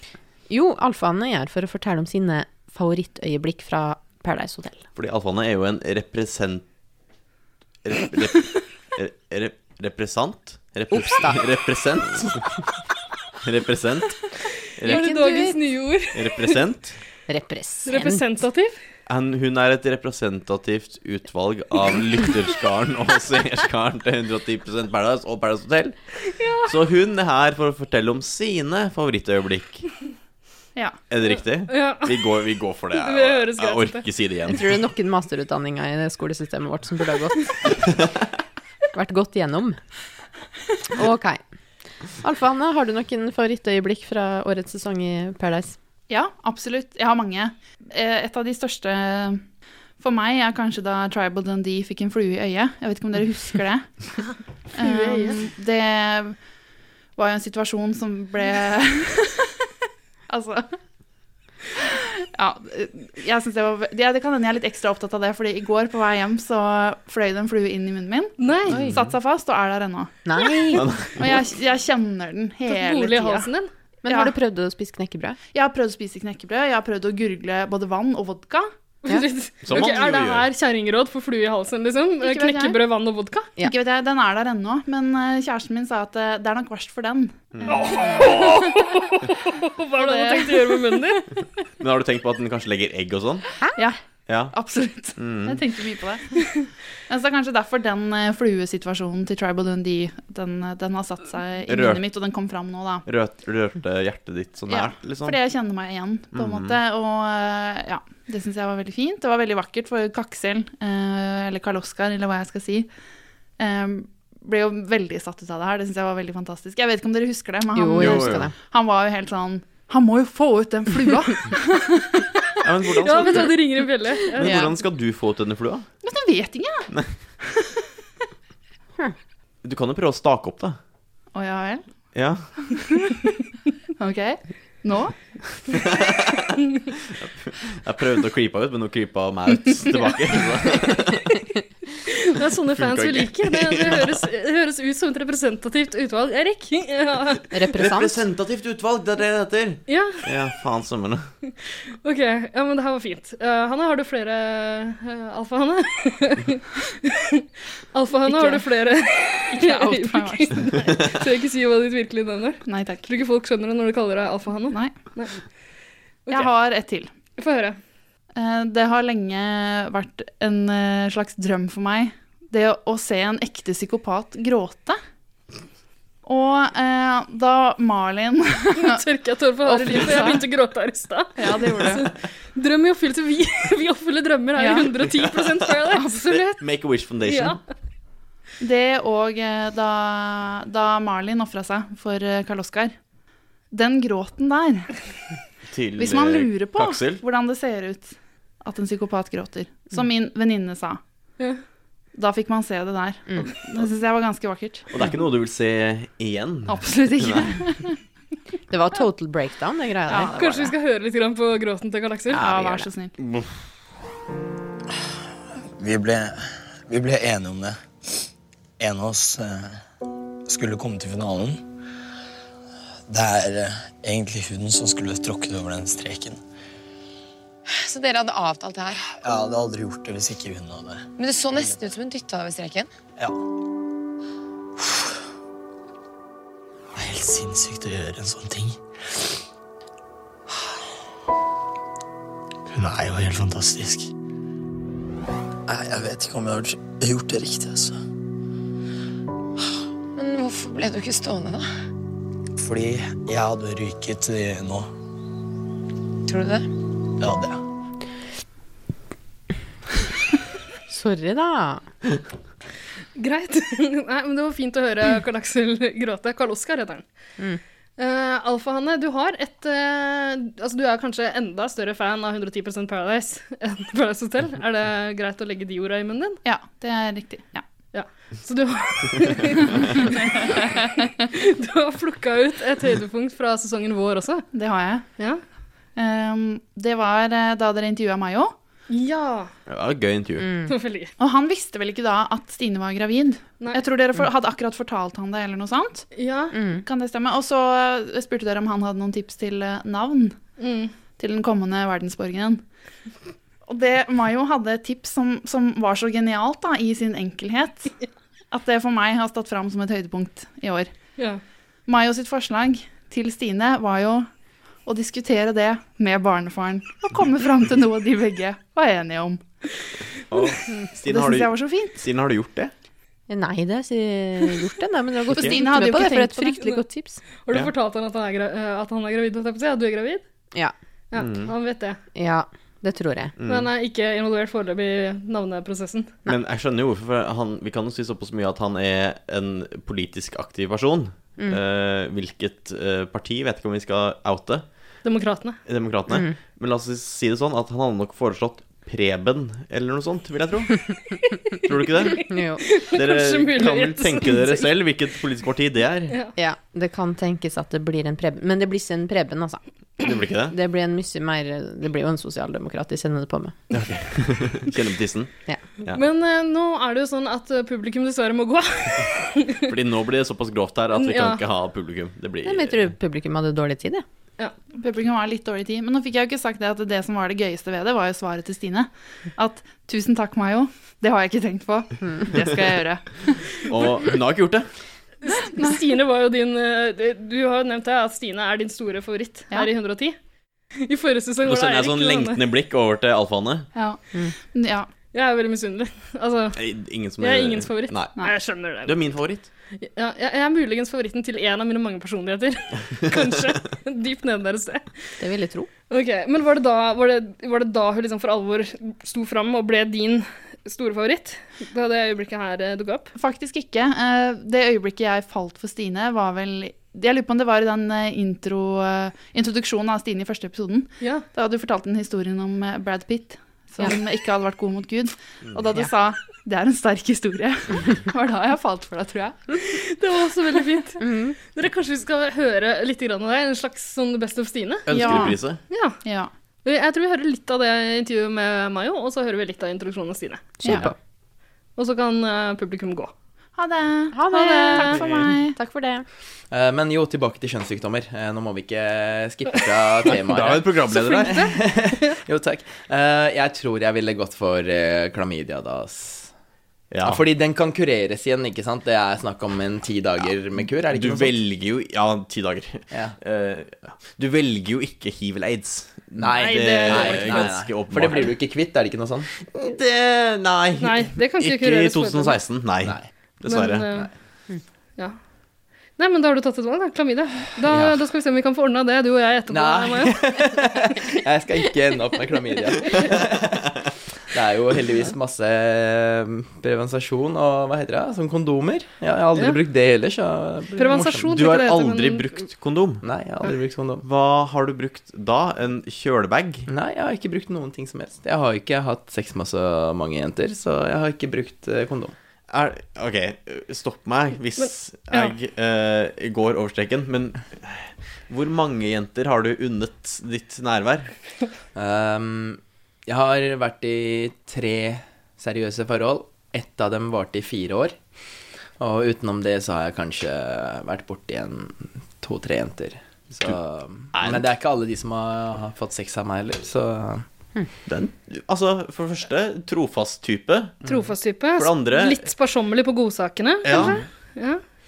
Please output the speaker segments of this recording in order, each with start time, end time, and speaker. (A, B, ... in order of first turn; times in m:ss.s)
0:00.5-0:04.8 A
0:05.0-0:06.6 B
0:07.8-0:12.4 B
0:10.9-0:11.4 A
0:13.4-0:14.2 B
0:14.8-0:15.1 B
0:14.8-0:15.6 A
0:14.9-0:16.5 C
0:16.1-0:17.0 B
0:17.3-0:18.2 A
0:17.9-0:18.8 C
0:19.1-0:26.0 B
0:26.3-0:26.7 C
0:26.7-0:29.9 B
0:31.1-0:34.6 B
0:31.3-0:32.2 C
0:33.0-0:34.0 C
0:34.5-0:37.6 A
0:38.9-0:39.8 A
0:41.0-0:41.4 A
0:42.2-0:45.8 A
0:46.1-0:49.4 D
0:50.0-0:54.1 D
0:54.7-0:56.4 D
0:54.8-0:55.4 C
0:57.2-0:59.6 D
1:00.3-1:00.7 D
1:01.8-1:10.2 D
1:08.4-1:08.8 C
1:08.7-1:09.0 A
1:08.8-1:09.0 B
1:10.3-1:10.8 A
1:10.7-1:11.2 B
1:11.2-1:13.5 D
1:12.7-1:13.7 C
1:14.0-1:15.4 A
1:14.1-1:14.4 D
1:15.5-1:18.7 D
1:19.0-1:23.5 C
1:19.6-1:20.5 B
1:22.2-1:22.8 D
1:23.6-1:28.7 D
1:27.5-1:27.9 B
1:27.7-1:31.3 C
1:30.0-1:31.0 D
1:31.8-1:33.5 B
1:34.3-1:34.5 B
1:34.5-1:43.0 D
1:35.2-1:35.6 B
1:41.7-1:42.0 B
1:43.1-1:45.4 B
1:44.7-1:52.9 D
1:46.3-1:46.8 B
1:53.6-2:02.3 D
1:57.8-1:58.5 A
1:58.0-1:58.5 B
2:02.6-2:03.6 B
2:03.0-2:04.6 C
2:04.4-2:05.9 B
2:04.4-2:04.7 D
2:06.0-2:06.9 D
2:07.4-2:07.8 D
2:09.6-2:10.8 B
2:11.4-2:11.9 D
2:12.1-2:12.6 B
2:12.8-2:13.2 D
2:14.0-2:15.2 D
2:15.7-2:16.4 B
2:17.2-2:21.4 B
2:22.1-2:27.4 C
2:22.8-2:24.2 B
2:27.5-2:28.2 A
2:27.7-2:31.3 B
2:29.9-2:30.2 C
2:31.5-2:45.4 C
2:38.3-2:38.6 D
2:39.5-2:40.9 D
2:42.7-2:43.0 D
2:46.3-2:47.1 D
2:47.4-2:47.8 C
2:48.4-2:55.0 D
2:56.2-2:59.0 D
2:58.8-3:06.6 C
2:59.6-3:00.4 D
3:01.4-3:02.1 D
3:04.6-3:04.9 D
3:06.3-3:07.6 B
3:07.3-3:07.6 C
3:08.6-3:13.0 D
3:13.7-3:15.1 D
3:15.7-3:17.2 B
3:16.0-3:21.0 D
3:22.2-3:24.9 D
3:24.9-3:27.5 B
3:26.7-3:28.0 D
3:28.7-3:30.6 A
3:30.1-3:30.7 D
3:30.3-3:32.4 C
3:32.3-3:32.9 A
3:32.4-3:33.2 D
3:35.8-3:37.8 E
3:38.8-3:39.8 E
3:40.5-3:41.6 E
3:43.1-3:46.4 E
3:47.7-3:49.0 F
3:49.1-3:51.8 E
3:51.2-3:52.9 F
3:54.8-3:55.2 E
3:57.0-3:58.8 E
4:02.7-4:04.1 E
4:05.7-4:08.0 E
4:10.2-4:11.7 F
4:12.6-4:14.9 E
4:16.3-4:16.7 F
4:17.2-4:17.6 E
4:20.9-4:21.8 A
4:23.2-4:27.0 C
4:28.0-4:36.4 C
4:36.4-4:37.6 D
4:37.9-4:44.5 C
4:40.0-4:40.8 D
4:44.5-4:45.1 D
4:45.2-4:45.4 C
4:46.0-4:48.5 D
4:48.9-4:49.5 C
4:49.7-4:50.5 B
4:50.4-4:50.7 A
4:50.7-4:51.1 C
4:51.2-4:56.1 D
4:56.1-4:56.6 C
4:56.5-4:56.8 A
4:56.8-5:00.4 D
5:00.6-5:00.9 C
5:01.2-5:02.6 D
5:03.7-5:07.9 D
5:08.5-5:10.9 D
5:11.9-5:14.3 D
5:14.8-5:19.4 D
5:20.3-5:22.7 B
5:21.1-5:22.0 D
5:23.3-5:27.2 A
5:25.3-5:26.6 D
5:27.4-5:30.2 C
5:31.1-5:32.0 C
5:31.2-5:31.5 B
5:32.2-5:33.3 A
5:33.4-5:33.7 B
5:33.5-5:36.1 C
5:36.3-5:44.7 B
5:45.0-5:45.6 C
5:45.7-5:50.8 B
5:46.1-5:46.4 A
5:51.7-5:52.3 B
5:52.0-5:54.7 C
5:52.2-5:52.6 A
5:52.9-5:56.2 B
5:56.4-5:59.6 A
6:00.0-6:00.6 B
6:00.5-6:03.6 A
6:03.7-6:05.3 B
6:05.9-6:09.6 C
6:09.7-6:12.9 B
6:10.9-6:11.4 C
6:12.4-6:14.0 A
6:14.8-6:23.6 D
6:23.7-6:24.7 B
6:25.2-6:30.2 C
6:25.3-6:25.8 D
6:30.8-6:32.4 C
6:31.4-6:33.7 B
6:33.7-6:34.9 D
6:35.1-6:36.6 C
6:36.6-6:38.1 B
6:37.2-6:39.0 C
6:38.7-6:39.5 B
6:39.8-6:45.2 C
6:45.2-6:45.7 A
6:45.9-6:53.1 C
6:53.2-7:09.6 D
7:01.0-7:01.2 C
7:09.9-7:16.0 C
7:11.0-7:11.4 A
7:14.9-7:15.6 B
7:14.9-7:15.4 D
7:16.0-7:16.3 D
7:16.6-7:20.6 C
7:20.6-7:21.0 A
7:21.8-7:23.1 C
7:23.6-7:25.6 D
7:24.1-7:26.1 A
7:24.4-7:25.0 C
7:26.5-7:36.3 G
7:30.1-7:31.4 B
7:30.9-7:32.1 C
7:36.9-7:37.2 B
7:37.0-7:41.4 G
7:40.9-7:48.3 B
7:42.9-7:43.2 G
7:46.2-7:49.3 G
7:46.4-7:47.5 C
7:49.6-7:53.9 B
7:50.8-7:52.4 C
7:52.8-7:53.1 G
7:53.4-7:54.1 C
7:56.0-8:00.4 C
7:57.7-7:58.0 G
7:59.5-8:03.7 G
8:04.3-8:11.4 G
8:10.8-8:12.4 C
8:11.3-8:13.0 B
8:13.0-8:14.0 G
8:14.0-8:16.7 B
8:16.7-8:22.2 G
8:22.5-8:31.1 B
8:24.6-8:25.3 C
8:31.8-8:38.0 G
8:38.8-8:47.2 G
8:44.1-8:44.5 B
8:47.9-8:50.8 B
8:50.8-8:54.6 C
8:51.6-8:52.3 B
8:53.6-8:54.0 B